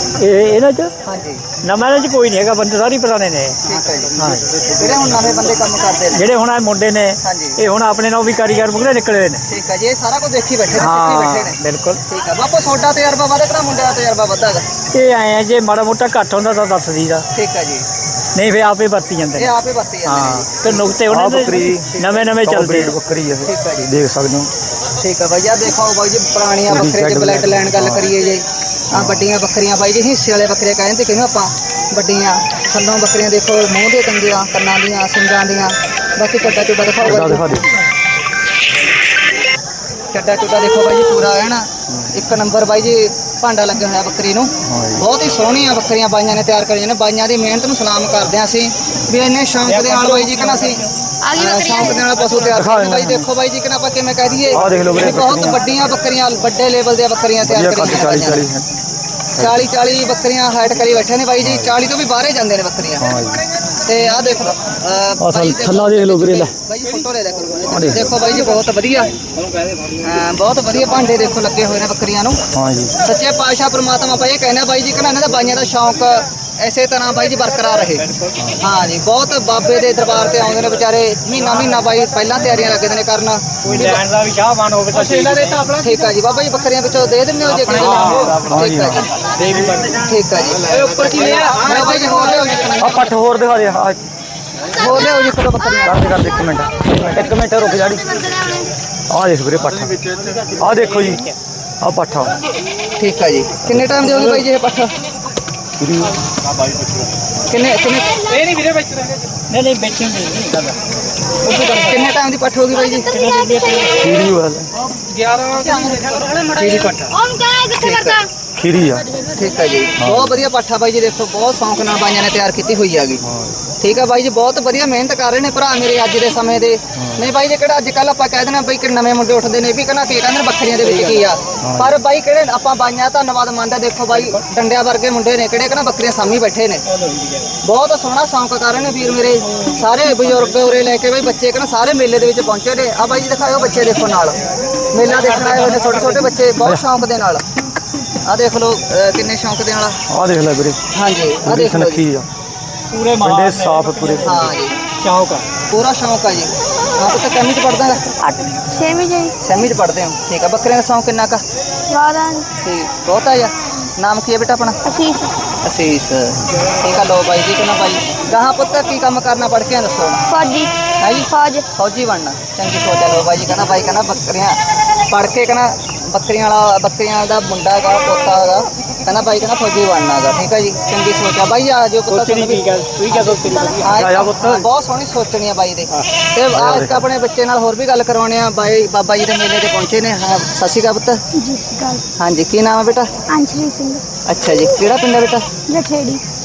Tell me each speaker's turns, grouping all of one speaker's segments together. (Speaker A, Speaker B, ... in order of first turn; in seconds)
Speaker A: 0.2-0.9, 1.6-3.6, 4.2-4.7, 6.1-9.4, 10.8-12.0, 14.9-17.2, 18.4-19.6, 20.1-22.9, 49.7-50.9, 83.6-85.8, 87.5-88.5, 89.3-90.0, 90.7-91.9, 100.2-101.3, 108.4-110.8, 111.5-111.8, 113.1-114.2, 115.1-117.2, 130.8-131.2, 145.2-146.2, 152.9-155.5, 182.1-183.9
Speaker B: 1.1-1.4, 3.6-6.3, 7.2-7.6, 9.5-11.6, 12.1-14.7, 17.3-17.9, 19.4-20.5, 23.4-23.9, 25.0-37.6, 40.1-50.8, 51.3-58.5, 59.4-63.1, 63.9-69.1, 70.0-72.4, 73.0-78.1, 78.6-83.9, 85.7-89.2, 89.9-93.2, 94.7-96.0, 103.0-104.9, 107.5-108.2, 111.5-113.1, 117.7-118.2, 119.2-123.2, 123.8-136.8, 137.6-144.4, 144.9-147.4, 148.2-150.0, 150.9-152.0, 154.2-154.8, 155.7-158.1, 159.4-161.4, 162.6-164.8, 165.6-170.3, 171.0-174.6, 175.1-182.6, 183.8-191.2, 192.2-193.1, 194.3-195.5
Speaker C: 21.1-24.5, 26.7-28.1, 28.9-29.3, 37.0-37.7, 44.6-45.0, 52.5-53.3, 54.5-55.6, 57.4-58.7, 61.4-61.8, 63.0-63.4, 65.2-66.5, 67.7-68.1, 72.5-73.0, 78.4-78.6, 88.4-89.1, 92.8-94.0, 95.8-98.5, 99.1-101.3, 101.8-102.3, 103.7-104.1, 105.8-106.1, 114.0-114.7, 118.5-119.1, 120.0-120.4, 123.2-123.6, 127.0-127.3, 131.6-132.0, 150.1-150.8, 151.4-152.3, 153.2-154.5, 183.9-184.7, 186.5-187.0
Speaker D: 51.2-52.1, 113.0-114.0, 116.9-118.2, 158.2-159.3, 161.9-162.5, 164.8-165.4, 170.3-171.7, 191.3-192.0, 193.3-194.0, 195.7-196.2